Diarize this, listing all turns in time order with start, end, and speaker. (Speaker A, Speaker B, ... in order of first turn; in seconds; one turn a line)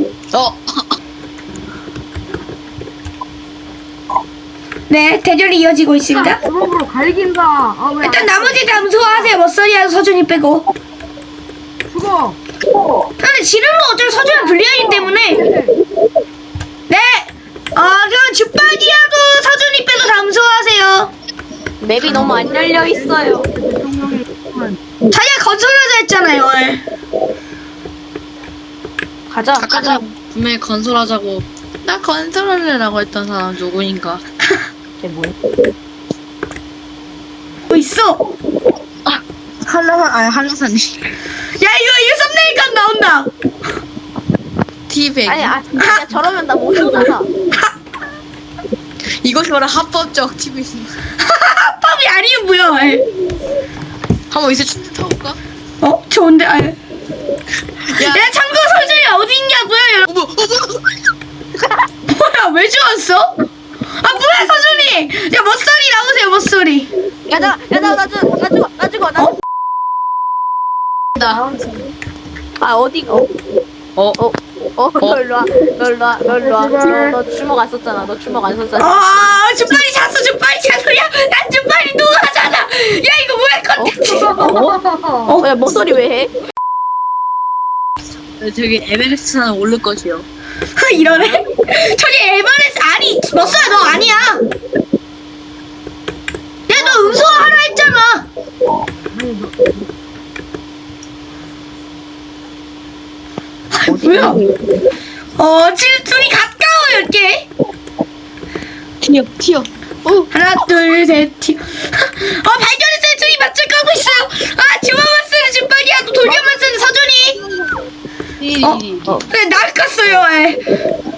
Speaker A: 0.3-0.9
Speaker B: 4.9-6.4
Speaker C: 6.1-9.4
Speaker B: 8.0-10.7
Speaker C: 11.9-12.4
Speaker B: 13.2-15.5
Speaker C: 14.2-15.8
Speaker B: 16.9-21.1
Speaker D: 21.8-23.5
Speaker C: 22.0-24.8
Speaker B: 25.1-26.8
Speaker D: 29.3-30.0
Speaker A: 29.6-34.2
Speaker D: 35.0-35.4
Speaker B: 37.7-38.2
Speaker A: 39.1-41.0
Speaker B: 41.6-43.3
Speaker A: 44.9-45.6
Speaker D: 45.3-47.3
Speaker A: 49.2-50.9
Speaker B: 51.2-53.0
Speaker A: 54.3-55.4
Speaker B: 55.8-56.8
Speaker A: 58.0-58.9
Speaker B: 58.1-60.1
Speaker A: 60.1-61.0
Speaker B: 62.1-63.4
Speaker B: 64.0-66.9
Speaker D: 67.3-69.4
Speaker C: 71.2-71.9
Speaker D: 72.6-73.3
Speaker D: 74.2-79.4
Speaker C: 76.3-77.2
Speaker B: 78.8-84.7
Speaker D: 83.8-84.7
Speaker C: 84.0-85.4
Speaker D: 85.4-86.3
Speaker A: 88.4-90.2
Speaker B: 90.8-94.4
Speaker B: 96.7-98.3
Speaker C: 99.1-99.8
Speaker B: 103.7-104.4
Speaker A: 103.9-104.4
Speaker B: 105.4-107.5
Speaker A: 109.0-110.2
Speaker B: 110.3-117.4
Speaker A: 116.2-116.6
Speaker A: 117.4-117.8
Speaker A: 118.4-119.2
Speaker B: 118.6-120.6